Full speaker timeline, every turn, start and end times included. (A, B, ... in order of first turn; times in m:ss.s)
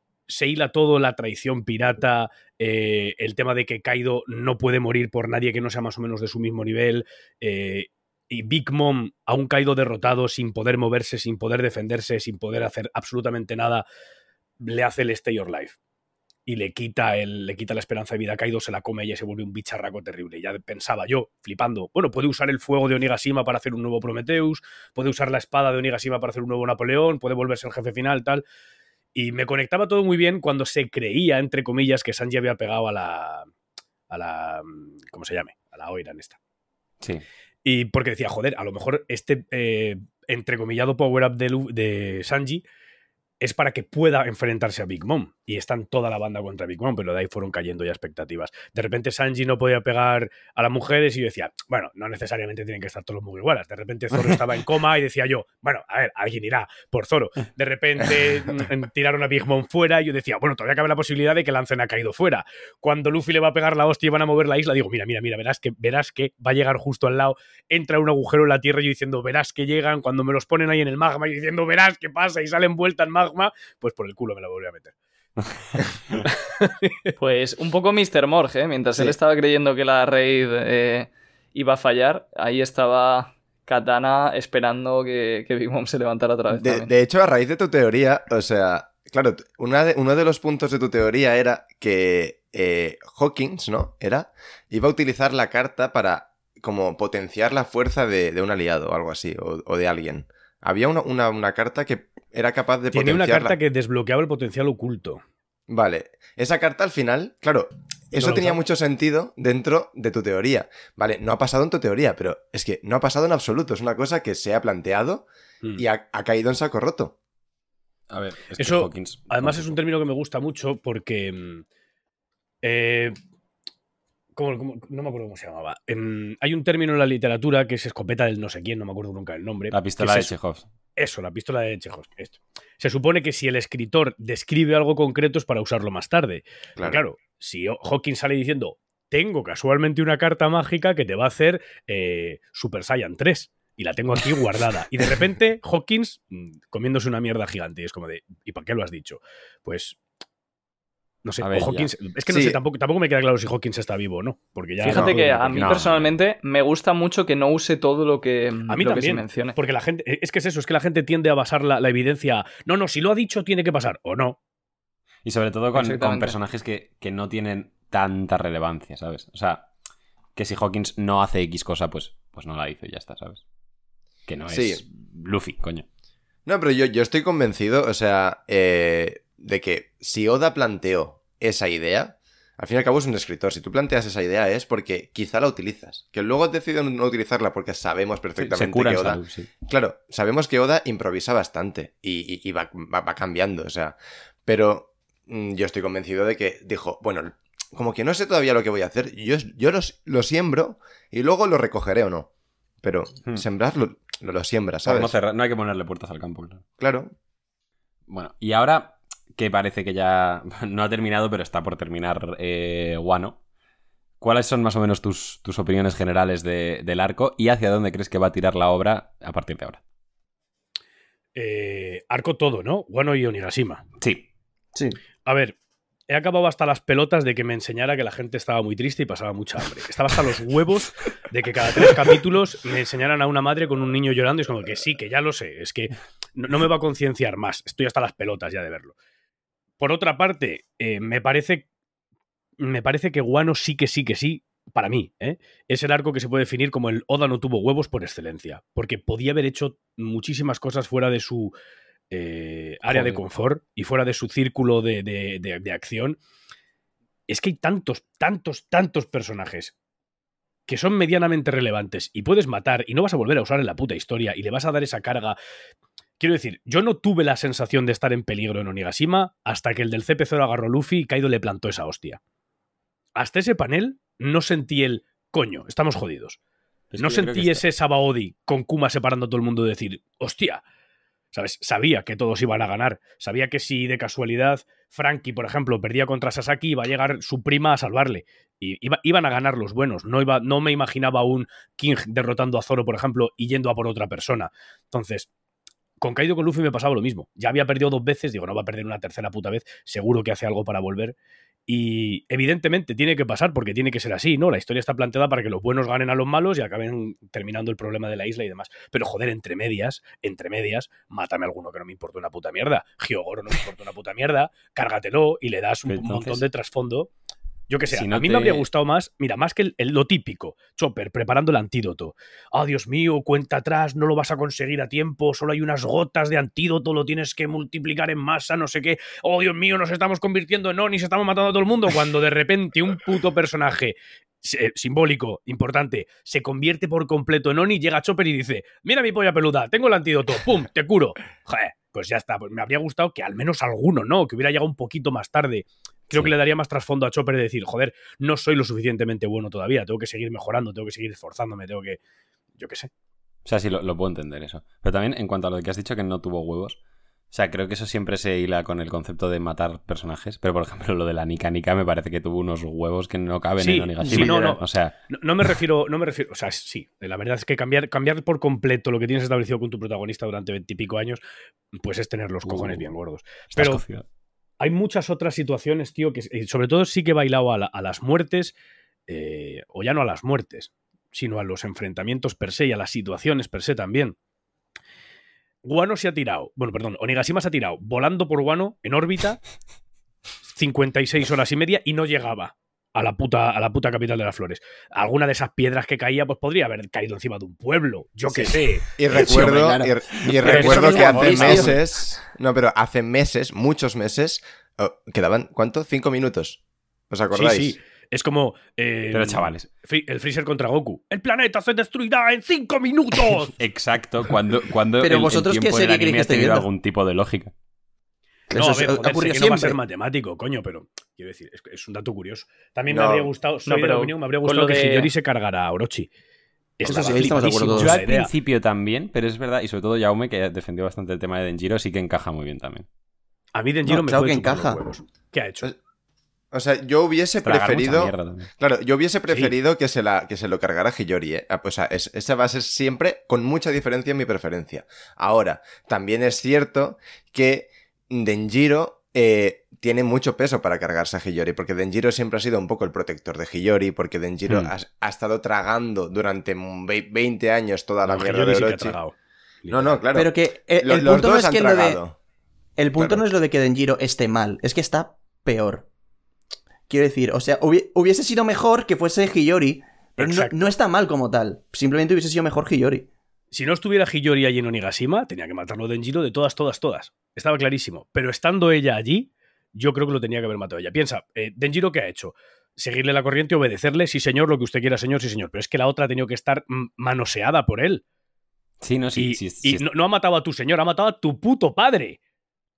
0:00.3-0:13.8 A
0:14.6-0:15.8 A
0:16.4-0:28.4 A
0:29.1-0:33.5 A
0:34.1-0:36.4 A
0:37.6-0:42.6 A
0:43.4-1:14.9 A
1:16.2-1:17.1 A
1:17.2-1:26.9 B
1:26.5-1:43.6 C
1:42.9-1:45.2 A
1:45.7-1:55.3 C
1:48.2-1:48.6 A
1:55.8-1:57.1 C
1:58.1-1:59.8 D
1:58.6-2:01.6 A
2:02.6-2:03.1 A
2:04.4-2:10.3 A
2:09.7-2:10.6 D
2:11.0-2:30.0 A
2:16.8-2:17.0 C
2:31.2-2:35.8 A
2:31.4-2:31.9 D
2:32.3-2:32.6 C
2:34.8-2:39.6 B
2:34.9-2:36.1 D
2:38.7-2:44.4 A
2:45.2-2:49.7 D
2:45.7-2:46.4 B
2:50.4-2:53.4 D
2:54.3-2:55.8 D
2:54.5-2:54.8 C
2:56.4-3:22.3 C
3:08.4-3:09.5 D
3:22.8-3:25.1 C
3:24.8-3:26.6 D
3:26.8-3:27.1 C
3:28.1-3:33.4 D
3:34.2-3:39.8 D
3:41.3-3:43.8 A
3:44.0-3:44.3 D
3:44.7-3:45.0 E
3:45.2-3:45.5 A
3:46.1-3:58.9 A
3:59.8-4:01.6 A
4:02.6-4:11.5 A
4:12.1-4:16.2 A
4:12.9-4:13.2 D
4:17.3-4:19.7 A
4:20.7-4:25.4 A
4:26.2-4:32.2 A
4:33.2-4:36.4 A
4:36.9-4:37.6 D
4:37.0-4:40.6 A
4:41.3-4:55.3 A
4:56.0-5:01.1 A
5:01.7-5:17.1 A
5:15.9-5:16.4 D
5:17.7-5:52.0 A
5:17.9-5:18.6 D
5:52.6-5:52.9 A
5:53.4-5:56.8 D
5:57.3-6:05.0 D
6:03.6-6:11.2 A
6:04.0-6:04.4 E
6:11.8-6:13.8 A
6:12.4-6:12.8 D
6:13.5-6:14.0 D
6:14.6-6:18.5 A
6:19.1-6:24.1 A
6:25.6-6:29.4 A
6:30.5-6:38.9 A
6:38.3-6:47.8 C
6:39.0-6:41.8 E
6:40.4-6:41.7 D
6:47.3-6:53.5 A
6:49.1-6:49.6 D
6:53.6-6:57.5 D
6:55.0-6:56.7 E
6:58.5-6:59.8 E
6:58.5-7:06.1 A
7:02.9-7:03.3 C
7:03.6-7:05.1 B
7:06.8-7:08.3 A
7:06.8-7:08.0 E
7:07.2-7:12.8 D
7:13.5-7:15.7 A
7:13.8-7:14.8 E
7:16.5-7:39.0 C
7:17.4-7:18.5 D
7:38.0-7:40.0 A
7:39.7-7:42.2 C
7:40.1-7:42.0 E
7:42.8-7:45.9 E
7:43.0-7:43.2 C
7:46.9-7:53.1 E
7:50.2-7:50.7 A
7:53.5-8:08.0 A
8:08.8-8:09.8 D
8:09.1-8:12.2 A